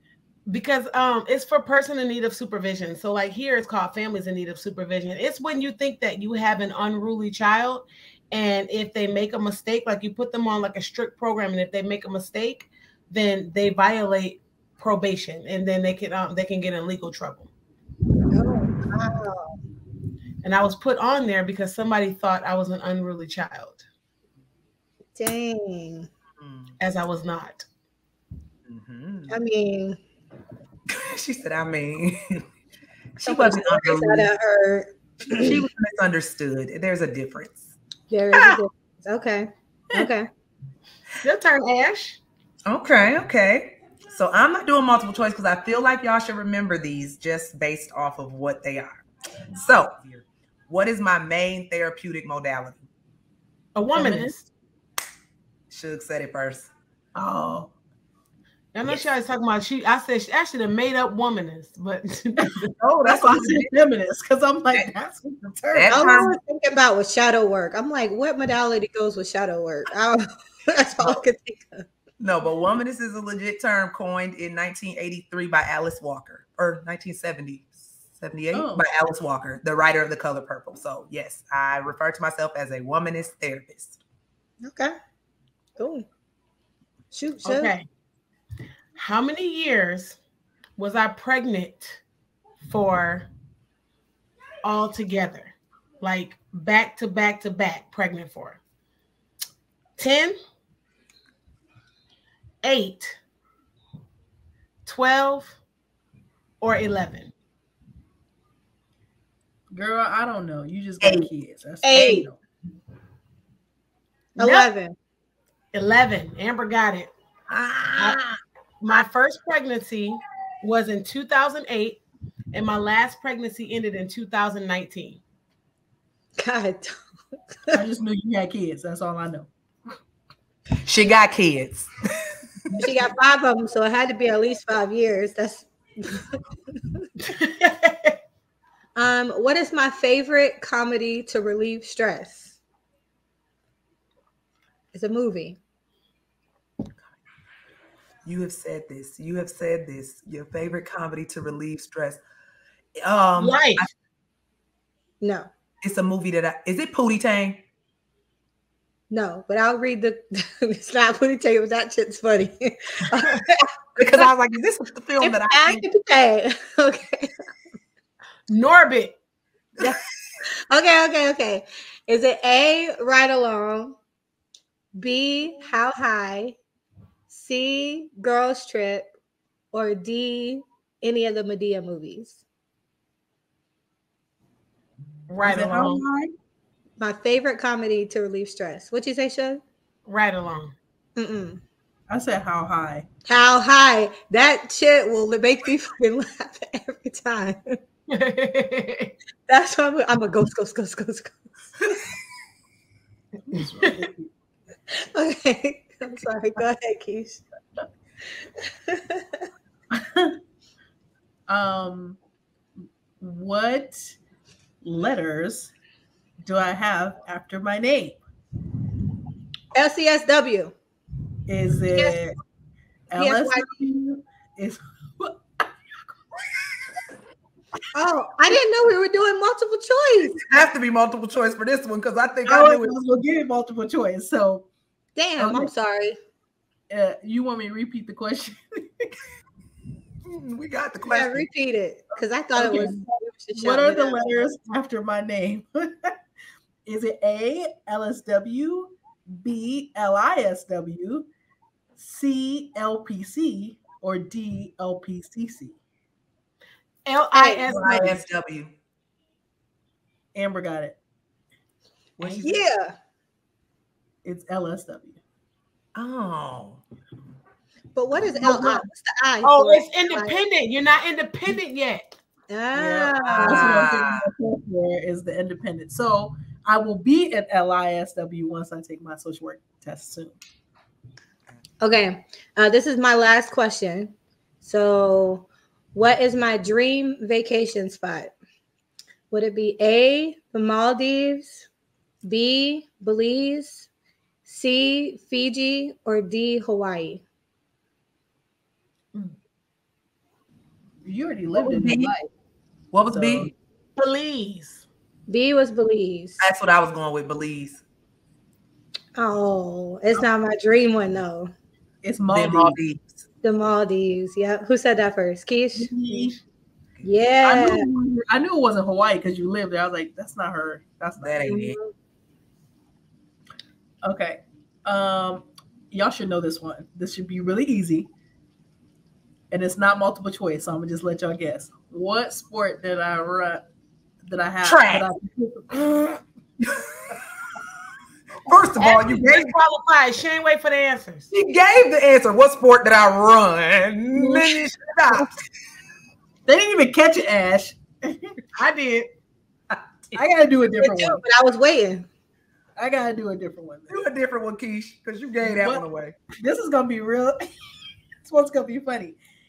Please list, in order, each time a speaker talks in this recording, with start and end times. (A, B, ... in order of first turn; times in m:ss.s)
0:00.5-0:17.5 A
0:18.3-0:19.6 B
0:20.4-0:23.8 A
0:25.2-0:26.1 B
0:26.4-0:26.8 C
0:26.8-0:27.7 A
0:28.7-0:29.4 C
0:29.3-0:30.0 B
0:30.9-0:32.2 C
0:33.2-0:34.3 C
0:33.2-0:35.6 B
0:35.3-0:37.7 C
0:38.1-0:40.3 B
0:38.3-0:38.6 C
0:41.2-0:42.2 A
0:42.7-0:52.8 C
0:53.8-0:54.5 A
0:54.0-0:54.3 D
0:55.7-0:56.7 C
0:57.2-0:57.7 D
0:58.7-1:02.7 A
1:02.8-1:03.7 C
1:03.0-1:06.0 D
1:05.7-1:06.4 C
1:05.9-1:11.9 B
1:12.2-1:24.0 C
1:18.5-1:18.8 D
1:24.6-1:25.0 B
1:25.8-1:26.1 B
1:27.1-1:27.7 B
1:27.4-1:27.8 A
1:29.0-1:30.2 A
1:30.8-1:32.0 A
1:32.6-1:33.3 A
1:34.6-1:38.6 A
1:40.0-1:40.4 A
1:42.6-1:43.2 A
1:44.9-1:45.6 A
1:46.6-1:47.3 A
1:49.7-1:52.4 D
1:51.0-1:51.3 C
1:51.8-1:52.3 B
1:54.4-1:54.7 A
1:54.4-1:55.0 B
1:55.7-1:57.1 A
1:57.5-1:58.3 C
1:58.8-2:02.0 A
2:02.5-2:05.2 A
2:06.4-2:07.0 B
2:07.7-2:09.5 D
2:10.8-2:11.9 C
2:12.8-2:16.4 B
2:17.3-2:18.2 A
2:19.0-2:22.6 B
2:24.9-2:25.6 B
2:28.2-2:32.2 C
2:33.0-2:33.9 C
2:33.4-2:33.9 A
2:35.2-2:35.5 B
2:35.8-2:37.6 C
2:39.1-2:44.3 B
2:44.0-2:45.9 C
2:45.2-2:47.3 B
2:48.5-2:49.2 A
2:50.7-2:54.0 B
2:54.9-2:56.6 B
2:57.3-2:59.1 B
2:59.7-3:02.4 B
3:05.3-3:06.0 A
3:05.4-3:06.3 D
3:07.0-3:09.6 B
3:10.1-3:10.8 A
3:11.2-3:11.6 B
3:12.1-3:13.1 D
3:13.3-3:17.8 B
3:18.1-3:19.1 A
3:19.5-3:21.6 B
3:23.5-3:24.3 D
3:24.9-3:27.4 B
3:28.9-3:29.4 B
3:29.9-3:30.4 D
3:31.5-3:32.2 D
3:33.2-3:34.2 D
3:34.8-3:35.7 D
3:36.4-3:38.2 D
3:39.7-3:40.7 B
3:41.5-3:42.4 D
3:43.1-3:45.6 D
3:43.2-3:43.7 B
3:47.9-3:50.4 B
3:50.3-3:53.0 C
3:52.5-3:54.7 D
3:55.2-3:56.2 B
3:55.4-3:55.7 D
3:56.9-3:59.2 D
4:00.3-4:01.5 C
4:01.1-4:04.4 B
4:02.6-4:03.0 D
4:03.6-4:06.1 D
4:06.8-4:11.3 D
4:12.0-4:15.8 D
4:17.1-4:18.2 A
4:17.4-4:17.6 B
4:17.7-4:18.8 C
4:20.3-4:21.0 D
4:22.2-4:22.6 C
4:22.2-4:23.0 B
4:24.2-4:25.2 D
4:26.0-4:26.8 C
4:28.0-4:30.4 B
4:28.4-4:28.7 D
4:28.5-4:28.8 A
4:29.4-4:32.1 A
4:32.5-4:33.8 B
4:32.7-4:40.4 D
4:33.3-4:34.3 C
4:41.8-4:48.3 B
4:49.3-4:51.7 B
4:52.2-4:53.9 B
4:54.5-4:57.2 B
5:01.0-5:02.3 D
5:01.6-5:02.1 C
5:02.9-5:03.5 C
5:03.1-5:03.5 D
5:04.0-5:04.9 A
5:05.3-5:06.5 B
5:06.4-5:07.8 C
5:09.2-5:11.5 B
5:12.0-5:12.8 D
5:12.3-5:13.2 C
5:13.4-5:16.0 B
5:15.8-5:16.4 D
5:17.0-5:17.9 B
5:17.4-5:21.6 D
5:21.2-5:21.8 C
5:21.5-5:21.9 B
5:24.0-5:28.1 D
5:29.5-5:33.6 D
5:34.3-5:35.9 D
5:34.6-5:35.1 C
5:36.6-5:37.2 C
5:38.4-5:39.5 C
5:38.8-5:41.3 A
5:41.3-5:45.3 C
5:44.2-5:44.5 D
5:46.5-5:48.4 D
5:48.6-5:49.1 A
5:50.2-5:51.2 D
5:50.8-5:52.1 B
5:52.8-5:54.0 D
5:53.9-5:56.2 C
5:55.4-5:55.9 D
5:56.4-5:57.4 D
5:58.2-5:59.2 D